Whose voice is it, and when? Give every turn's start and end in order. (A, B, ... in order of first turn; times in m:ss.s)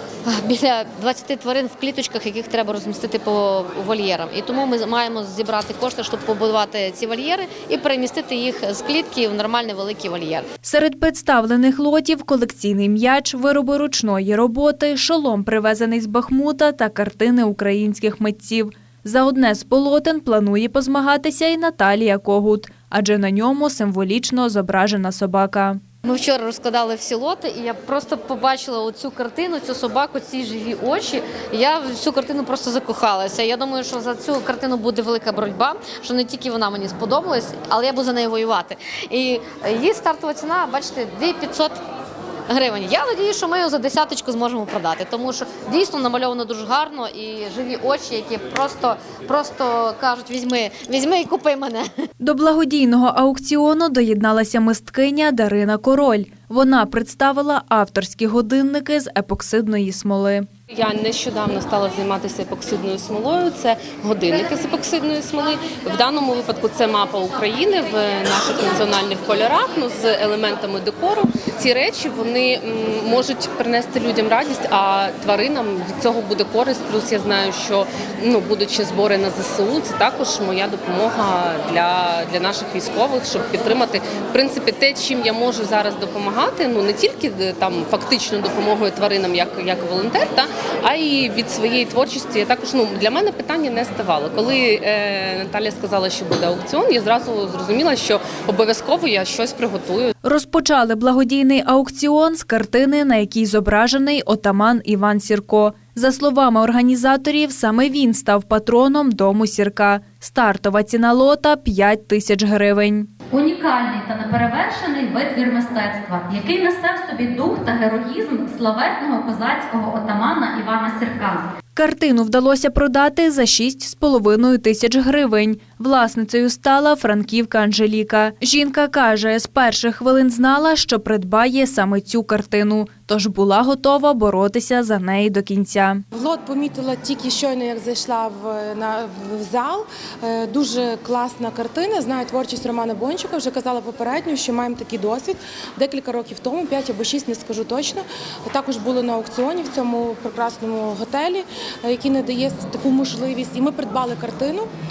0:00.2-0:10.4 A
0:10.6-0:25.8 B
0:26.0-0:41.8 A
0:42.5-0:51.9 A
0:52.2-1:00.5 B
1:00.7-1:40.1 C
1:40.2-1:53.1 B
1:53.3-2:01.5 D
2:01.7-2:16.0 B
2:16.1-2:34.7 E